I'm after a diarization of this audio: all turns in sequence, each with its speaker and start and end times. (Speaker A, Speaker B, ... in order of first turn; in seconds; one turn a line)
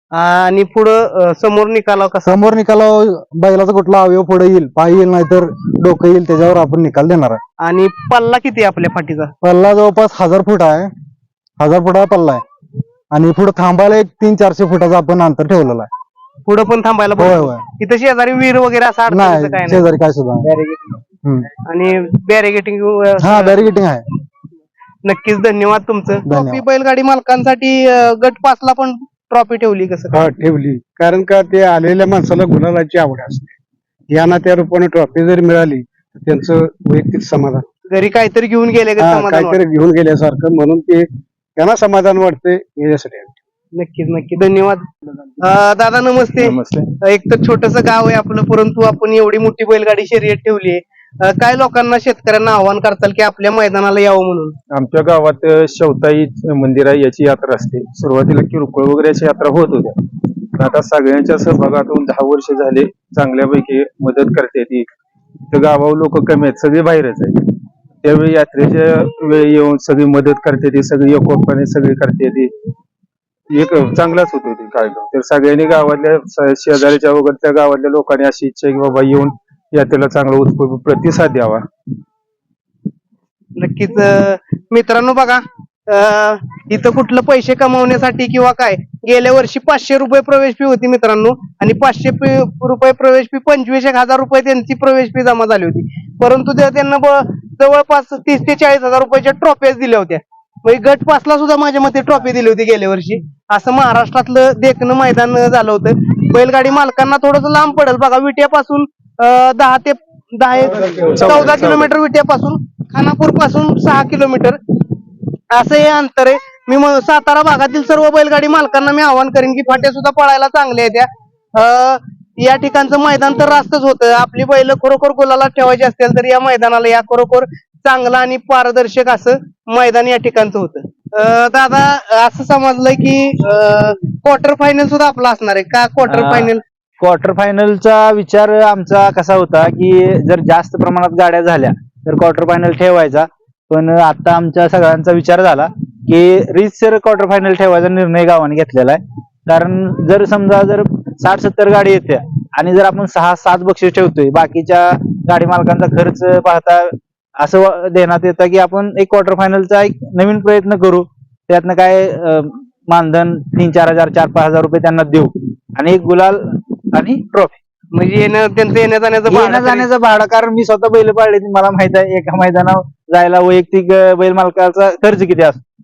Speaker A: 0.1-2.5
Speaker B: 2.2-7.4
Speaker A: 7.6-9.3
Speaker B: 9.4-10.9
Speaker B: 11.6-12.4
Speaker B: 13.1-15.9
Speaker A: 16.5-19.9
Speaker B: 17.2-17.6
Speaker B: 19.1-20.5
Speaker A: 20.4-21.0
Speaker B: 21.2-21.5
Speaker A: 21.6-23.6
Speaker B: 23.2-24.0
Speaker A: 25.0-30.2
Speaker B: 26.2-26.6
Speaker C: 30.1-33.5
Speaker C: 34.1-37.6
Speaker A: 37.9-39.6
Speaker C: 39.0-43.3
Speaker A: 43.8-44.9
Speaker A: 45.4-54.5
Speaker D: 46.4-46.9
Speaker D: 54.7-59.9
Speaker D: 60.6-64.9
Speaker D: 65.5-72.5
Speaker D: 73.5-81.7
Speaker A: 83.6-114.6
Speaker D: 110.8-111.9
Speaker A: 115.5-136.6
Speaker E: 136.1-136.5
Speaker E: 137.0-167.6
Speaker A: 167.9-169.9
Speaker E: 169.3-175.6